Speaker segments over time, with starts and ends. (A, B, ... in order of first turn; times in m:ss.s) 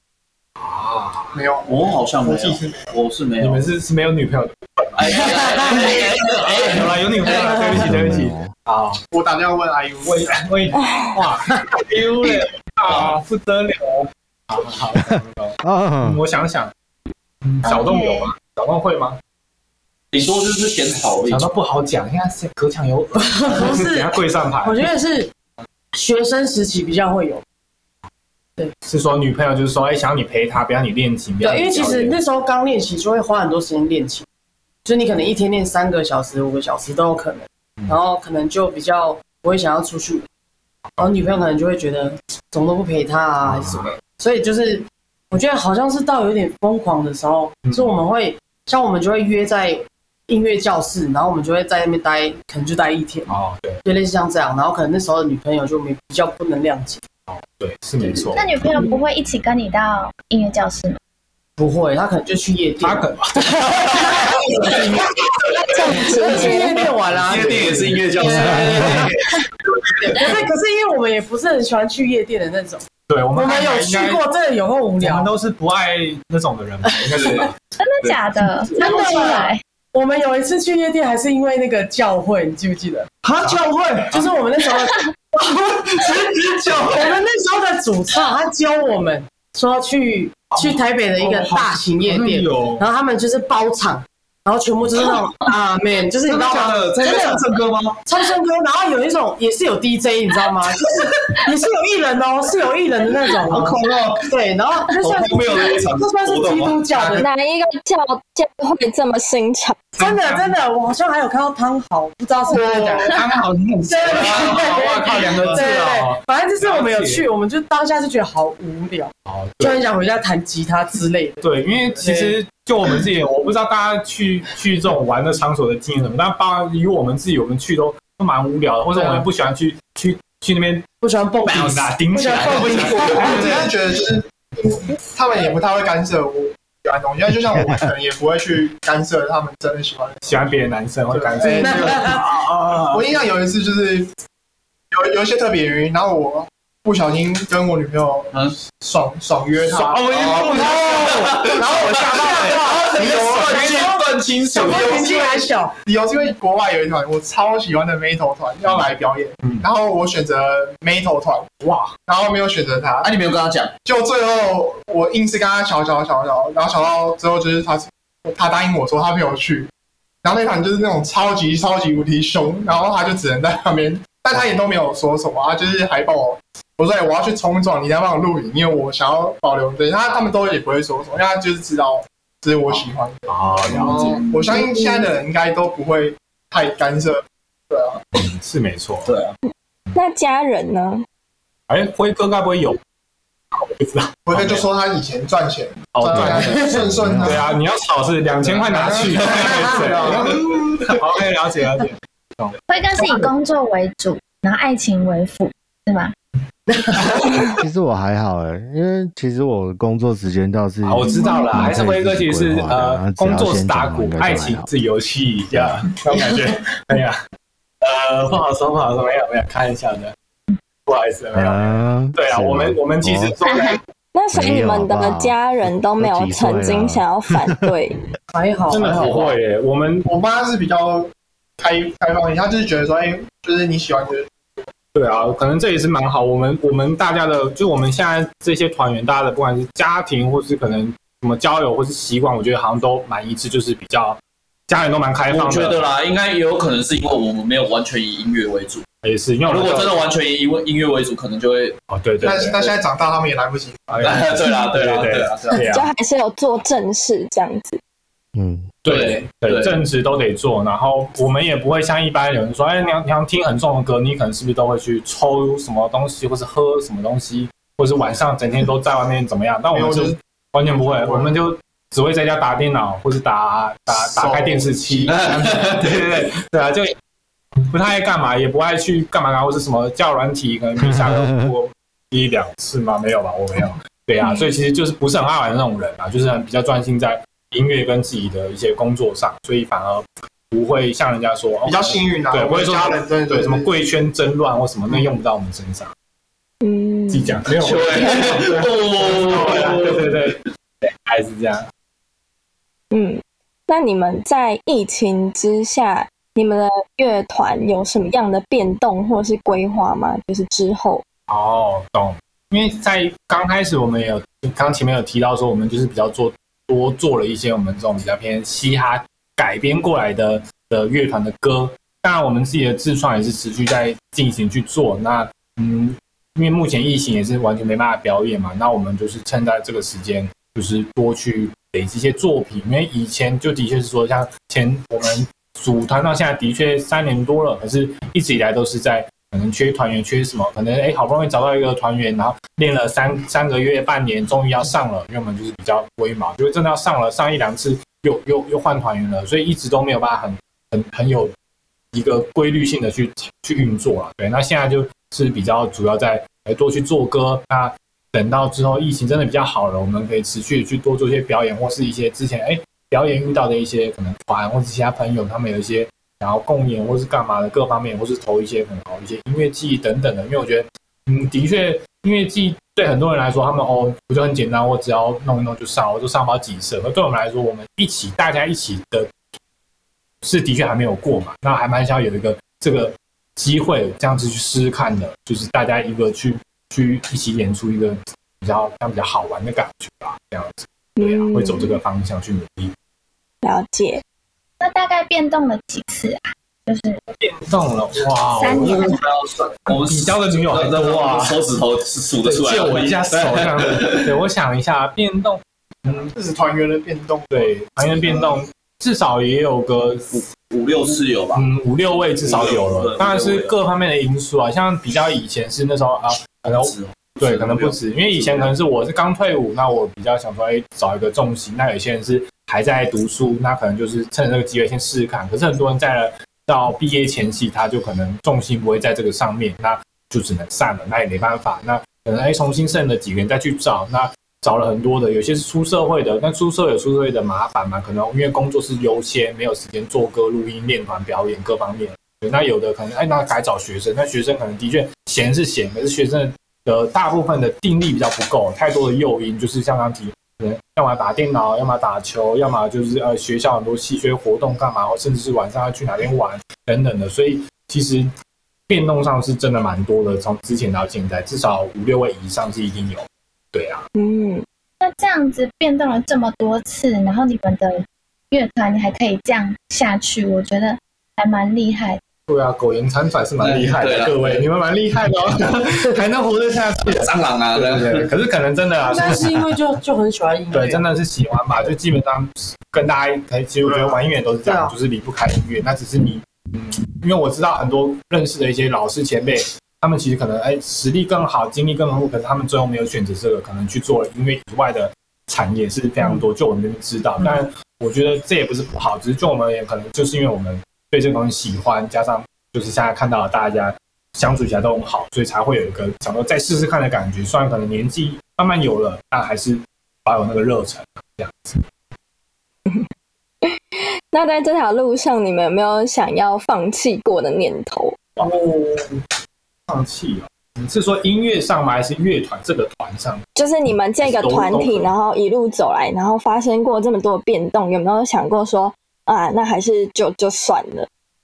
0:00.6-0:01.4 A
0:01.3-0:02.9 B
0:01.7-0:03.6 C
0:03.4-0:09.0 A
0:05.0-0:07.7 C
0:07.8-0:08.5 D
0:09.1-0:10.4 B
0:10.0-0:16.7 A
0:10.8-0:11.1 E
0:15.6-0:16.2 D
0:17.4-0:19.2 A
0:17.6-0:18.3 F
0:20.1-0:21.5 C
0:21.3-0:24.9 A
0:23.2-0:25.3 G
0:25.9-0:27.4 G
0:28.8-0:32.2 A
0:31.4-0:34.3 G
0:34.8-0:40.3 G
0:41.0-0:53.3 G
0:43.5-0:43.9 A
0:47.6-0:48.0 A
0:53.3-0:53.8 A
0:53.8-0:57.0 G
0:57.3-0:58.5 A
0:58.3-1:01.0 F
1:01.6-1:09.0 G
1:02.8-1:03.5 A
1:05.7-1:06.8 E
1:07.2-1:09.4 C
1:10.0-1:12.8 G
1:13.1-1:14.2 A
1:13.3-1:15.3 G
1:15.0-1:17.5 A
1:17.1-1:17.5 C
1:17.8-1:19.6 F
1:18.8-1:37.5 G
1:23.2-1:24.0 C
1:30.5-1:32.8 A
1:36.2-1:38.0 C
1:38.1-1:47.3 G
1:43.4-1:44.3 C
1:45.0-1:46.9 C
1:47.0-1:49.9 E
1:50.0-1:53.2 G
1:50.0-1:50.5 A
1:53.0-1:57.3 A
1:53.9-2:01.4 G
1:54.2-1:54.7 C
1:59.3-1:59.8 A
2:01.4-2:10.9 A
2:02.0-2:02.4 G
2:09.0-2:09.2 G
2:11.0-2:13.7 G
2:11.4-2:13.7 A
2:13.2-2:20.4 B
2:20.2-2:23.2 A
2:21.1-2:22.2 B
2:21.5-2:22.2 G
2:22.9-2:24.1 B
2:24.9-2:30.2 B
2:29.7-2:30.8 A
2:30.1-2:35.4 C
2:30.2-2:35.7 G
2:33.0-2:33.7 B
2:34.7-2:41.5 B
2:41.6-2:41.9 A
2:42.1-2:43.1 B
2:43.0-2:43.7 C
2:43.8-2:49.7 B
2:50.2-3:08.0 B
3:03.3-3:04.2 A
3:03.8-3:04.6 C
3:04.6-3:05.1 E
3:08.2-3:09.1 A
3:09.1-3:09.3 C
3:09.9-3:11.0 E
3:11.7-3:12.8 A
3:13.5-3:14.7 A
3:14.3-3:17.6 B
3:15.9-3:22.6 A
3:16.1-3:17.4 D
3:18.5-3:20.7 B
3:18.9-3:19.7 C
3:22.7-3:26.1 F
3:27.6-3:34.7 D
3:30.8-3:37.2 A
3:35.5-3:35.8 D
3:37.8-3:40.1 A
3:40.9-3:43.8 A
3:41.3-3:43.3 D
3:43.5-3:43.8 F
3:44.1-3:48.0 E
3:44.3-3:47.6 D
3:48.3-3:49.3 G
3:48.7-3:50.1 A
3:50.1-3:54.6 B
3:54.9-4:05.8 A
4:05.3-4:08.8 C
4:09.0-4:10.0 A
4:09.5-4:11.8 C
4:11.9-4:12.8 A
4:12.2-4:13.8 B
4:13.9-4:15.9 A
4:14.0-4:15.6 C
4:15.7-4:17.8 E
4:18.4-4:18.7 D
4:18.8-4:36.9 A
4:18.9-4:19.8 C
4:29.7-4:30.2 B
4:30.7-4:31.3 B
4:34.0-4:35.3 B
4:35.1-4:36.0 C
4:37.7-4:55.9 A
4:41.0-4:41.5 D
4:51.6-4:53.7 B
4:56.6-4:57.4 E
4:57.1-5:01.7 A
4:57.6-5:00.2 C
5:02.9-5:11.0 E
5:11.3-5:51.3 A
5:51.9-6:19.1 A
6:20.2-6:32.7 A
6:31.0-6:31.8 E
6:33.4-6:34.0 E
6:34.6-6:37.0 F
6:37.2-6:39.0 A
6:38.4-6:39.0 F
6:38.7-6:44.0 C
6:39.8-6:41.4 A
6:42.2-6:46.1 A
6:46.1-6:47.6 B
6:47.3-6:50.2 A
6:50.1-6:51.4 C
6:51.4-7:38.1 A
6:52.2-6:53.6 C
6:56.5-6:58.5 C
7:38.7-7:43.8 A
7:44.0-7:44.4 E
7:44.8-7:52.0 F
7:52.3-7:59.3 A
7:53.4-7:54.5 C
7:57.0-7:58.1 C
7:58.8-8:00.8 G
8:00.5-8:31.6 A
8:04.4-8:04.7 G
8:33.4-8:38.0 E
8:38.2-8:39.0 A
8:39.7-8:43.2 A
8:43.4-8:50.9 E
8:44.0-8:44.9 A